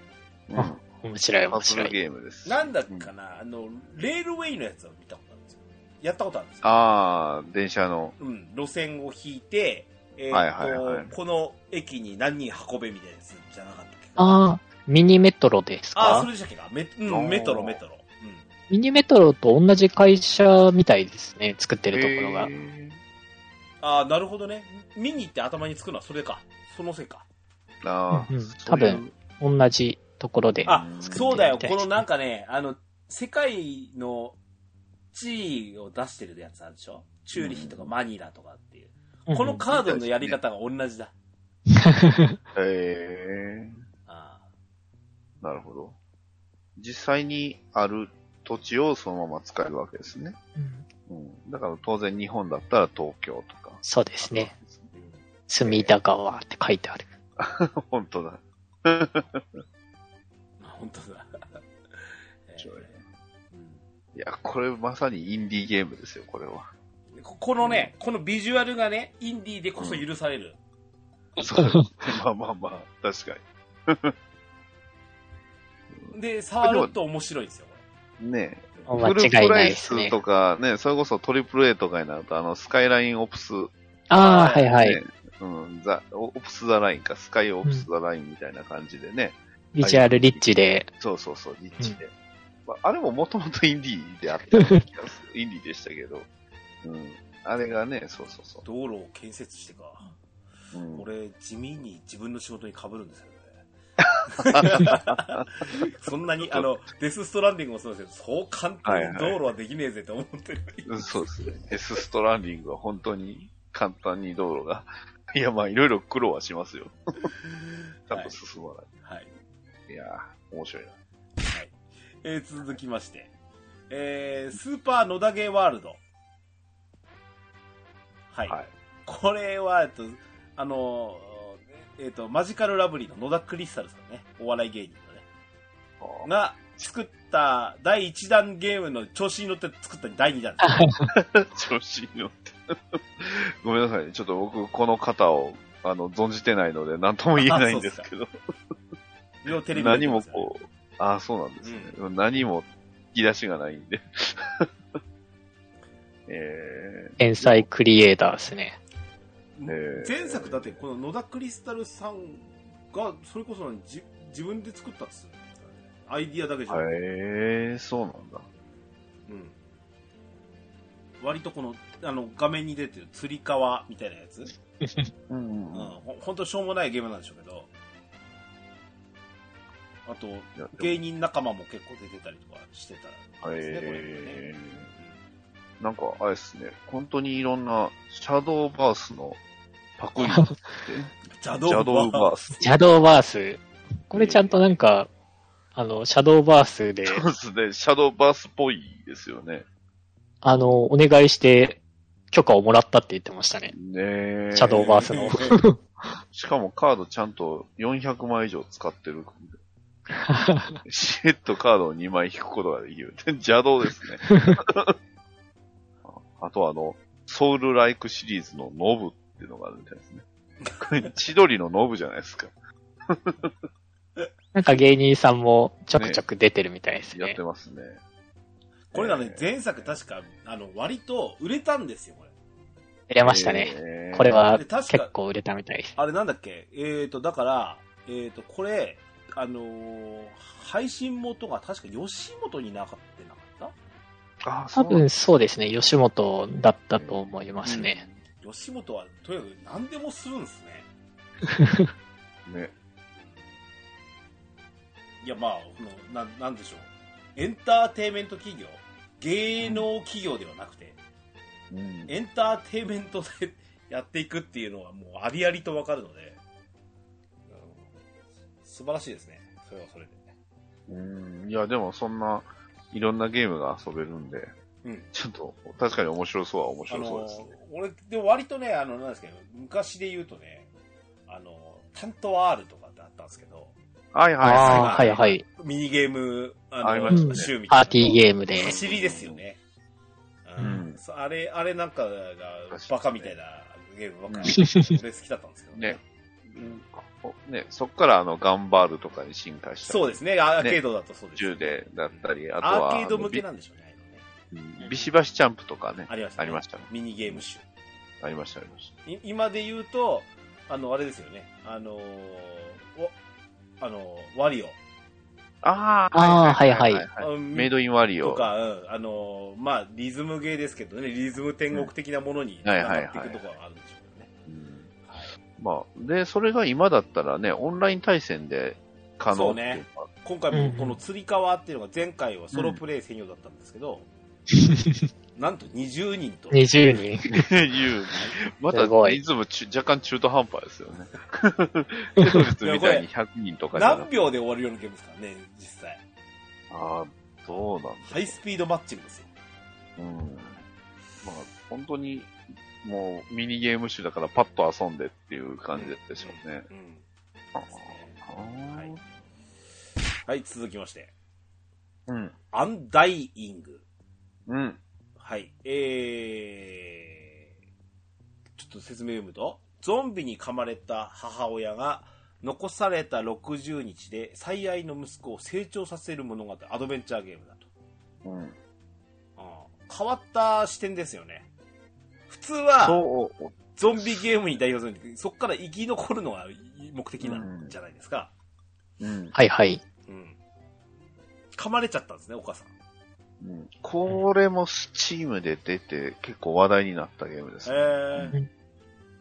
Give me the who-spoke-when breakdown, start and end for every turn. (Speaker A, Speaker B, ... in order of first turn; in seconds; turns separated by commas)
Speaker A: 0.5-0.8, Speaker B: 0.5-1.9, Speaker A: 1.5-3.1, Speaker C: 2.4-6.7, Speaker A: 6.6-8.1, Speaker C: 8.2-14.4, Speaker A: 10.3-11.1, Speaker B: 14.2-16.3, Speaker C: 15.9-18.5, Speaker A: 17.1-17.8, Speaker B: 18.7-22.5, Speaker A: 21.9-23.0, Speaker C: 23.8-27.2, Speaker A: 27.8-29.1, Speaker B: 28.1-32.0, Speaker C: 30.6-34.4, Speaker A: 30.6-31.4, Speaker C: 35.1-41.1, Speaker A: 37.4-37.9, Speaker B: 39.3-39.6, Speaker A: 39.7-40.4, Speaker B: 41.8-42.4, Speaker A: 42.5-43.8, Speaker C: 44.1-44.5, Speaker A: 45.4-46.0, Speaker A: 46.8-50.4, Speaker B: 50.5-50.9, Speaker A: 51.1-54.9, Speaker B: 53.8-54.5, Speaker C: 54.9-55.2, Speaker B: 55.5-57.1, Speaker A: 55.6-55.9, Speaker A: 57.4-59.6, Speaker C: 60.6-63.0, Speaker A: 62.6-63.0, Speaker C: 63.5-63.8, Speaker A: 64.1-66.7, Speaker C: 67.1-70.6, Speaker A: 67.6-67.9, Speaker A: 69.8-70.0, Speaker A: 71.4-74.1, Speaker B: 71.4-71.9, Speaker A: 75.9-76.9, Speaker C: 76.1-77.8, Speaker A: 78.2-83.7, Speaker B: 78.9-80.2, Speaker B: 84.1-85.0, Speaker C: 84.2-84.7, Speaker A: 84.4-90.5, Speaker B: 89.7-90.9, Speaker A: 91.0-92.1, Speaker A: 92.7-96.3, Speaker B: 94.5-94.8, Speaker A: 96.8-98.6, Speaker C: 98.6-100.1, Speaker A: 100.7-101.1, Speaker C: 100.9-103.6, Speaker A: 104.0-105.5, Speaker C: 104.3-111.7, Speaker A: 106.4-106.7, Speaker A: 108.8-109.4, Speaker A: 110.8-117.0, Speaker C: 117.4-118.4, Speaker A: 118.1-118.9, Speaker C: 119.0-119.3, Speaker A: 119.9-121.0, Speaker C: 121.4-123.3, Speaker C: 123.9-126.0, Speaker C: 128.3-135.2, Speaker A: 136.0-136.3, Speaker C: 136.2-140.9, Speaker B: 140.7-141.0, Speaker A: 141.1-148.3, Speaker C: 147.4-148.1, Speaker C: 149.4-150.5, Speaker A: 149.7-154.7, Speaker C: 151.6-152.0, Speaker A: 156.3-157.7, Speaker B: 157.2-158.8, Speaker C: 159.6-166.9, Speaker A: 159.7-160.8, Speaker A: 166.7-168.4, Speaker C: 169.3-169.6, Speaker C: 171.2-174.5, Speaker A: 175.3-176.0, Speaker C: 175.7-177.7, Speaker C: 180.1-185.2, Speaker A: 180.6-181.0, Speaker A: 183.4-184.9, Speaker A: 185.8-189.4, Speaker A: 190.0-192.7, Speaker B: 190.2-190.5, Speaker C: 191.3-192.6, Speaker B: 192.6-195.1, Speaker A: 194.1-194.6, Speaker B: 195.7-197.2, Speaker A: 197.0-199.6, Speaker B: 200.4-203.7, Speaker A: 203.7-205.3, Speaker B: 204.5-205.8, Speaker C: 204.7-205.6, Speaker A: 206.3-209.6, Speaker B: 210.2-210.8, Speaker A: 210.8-214.9, Speaker A: 216.0-220.2, Speaker C: 220.6-221.1, Speaker A: 220.8-222.5, Speaker A: 223.1-223.5, Speaker B: 224.5-227.4, Speaker A: 225.9-226.2, Speaker A: 227.1-228.0, Speaker C: 228.9-232.3, Speaker A: 228.9-229.5, Speaker B: 233.1-235.9, Speaker A: 233.2-234.5, Speaker C: 234.5-235.1, Speaker C: 235.9-243.7, Speaker A: 244.4-245.1, Speaker B: 244.7-248.0, Speaker A: 246.9-248.2, Speaker C: 248.4-250.9, Speaker B: 251.5-251.9, Speaker A: 252.4-252.7, Speaker C: 255.2-261.0, Speaker A: 259.6-259.9, Speaker A: 261.7-262.1, Speaker C: 262.1-266.4, Speaker C: 267.5-267.9, Speaker C: 268.6-270.3, Speaker A: 270.9-274.5, Speaker C: 274.8-275.1, Speaker A: 275.1-277.5, Speaker C: 276.9-280.7, Speaker C: 281.3-283.7, Speaker A: 284.1-285.0, Speaker B: 284.4-285.4, Speaker C: 284.6-289.6, Speaker A: 286.8-287.5, Speaker B: 287.1-288.7, Speaker A: 288.5-289.4, Speaker C: 290.4-296.0, Speaker A: 290.6-291.0, Speaker A: 292.7-293.3, Speaker A: 294.3-294.6, Speaker B: 294.6-295.0, Speaker A: 295.7-300.8, Speaker C: 299.8-304.2, Speaker A: 301.4-303.4, Speaker A: 304.5-307.4, Speaker C: 306.1-307.6, Speaker A: 308.2-308.9, Speaker C: 309.0-313.1, Speaker C: 313.8-314.8, Speaker A: 315.6-318.5, Speaker B: 316.1-317.0, Speaker C: 317.2-324.3, Speaker A: 322.6-323.4, Speaker A: 324.5-324.9, Speaker C: 325.1-325.3, Speaker A: 325.6-330.1, Speaker C: 329.3-334.1, Speaker B: 330.5-331.0, Speaker A: 332.5-332.8, Speaker B: 334.7-335.0, Speaker C: 335.3-336.7, Speaker B: 336.5-337.4, Speaker A: 337.3-344.1, Speaker B: 338.7-339.2, Speaker C: 342.6-343.1, Speaker C: 343.7-346.0, Speaker A: 346.7-348.4, Speaker C: 348.0-349.3, Speaker A: 350.0-350.6, Speaker C: 350.4-350.6, Speaker A: 351.2-356.7, Speaker C: 355.7-357.0, Speaker A: 357.5-359.0, Speaker C: 357.6-358.9, Speaker C: 360.2-361.1, Speaker A: 362.1-362.3, Speaker C: 362.5-363.8, Speaker A: 364.5-364.8, Speaker C: 365.2-367.4, Speaker C: 368.6-377.6, Speaker A: 378.2-378.6, Speaker C: 379.4-381.5, Speaker C: 382.3-383.0, Speaker A: 382.8-384.3, Speaker C: 383.8-388.3, Speaker A: 387.2-387.7, Speaker A: 389.0-389.3, Speaker B: 389.3-389.8, Speaker C: 390.1-390.4, Speaker C: 391.5-392.7, Speaker A: 393.4-398.3, Speaker C: 397.6-398.4